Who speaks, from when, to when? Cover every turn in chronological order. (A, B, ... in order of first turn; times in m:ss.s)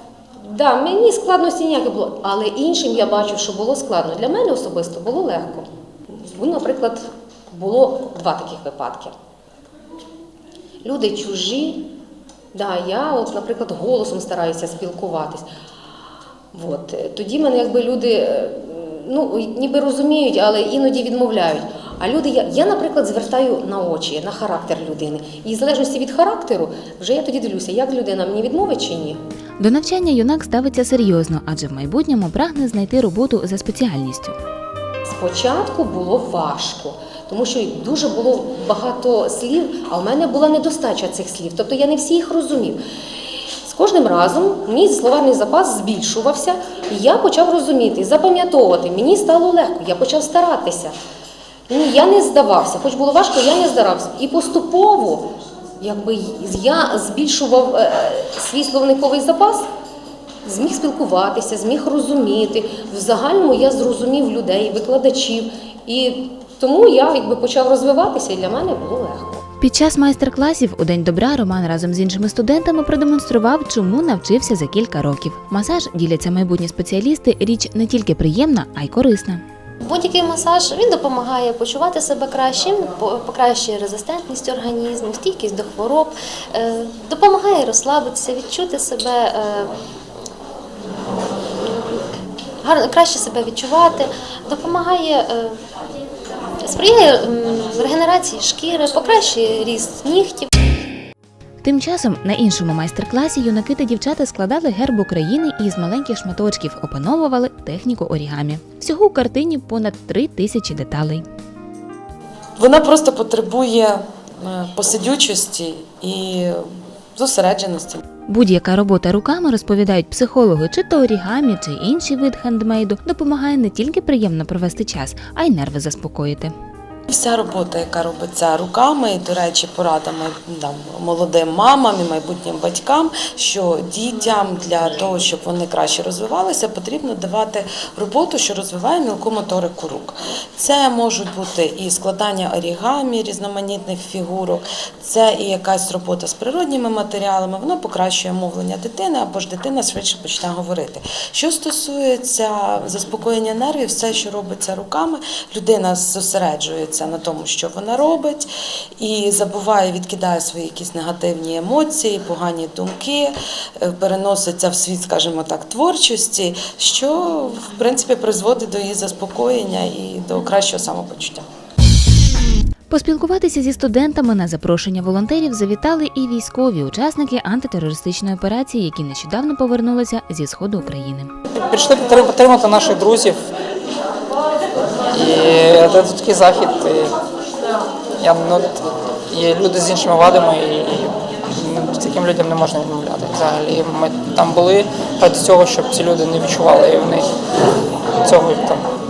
0:00.4-0:09.1 A
0:10.8-0:11.9 A
0:12.5-0:15.4 A
0:16.5-0:29.2 A
0:29.6-0:34.4 B
0:35.0-0:42.8 A
0:43.6-0:50.9 A
0:51.7-0:59.7 A
1:00.4-1:09.4 A
1:09.6-1:19.4 B
1:19.8-1:29.7 C
1:32.6-1:35.6 C
1:36.6-1:40.5 C
1:41.6-1:51.2 B
1:52.6-1:58.0 D
1:58.3-2:06.5 B
2:07.1-2:51.4 D
2:52.9-3:01.3 B
3:01.5-3:03.4 E
3:05.1-3:07.1 E
3:08.2-3:17.3 E
3:18.2-3:18.8 E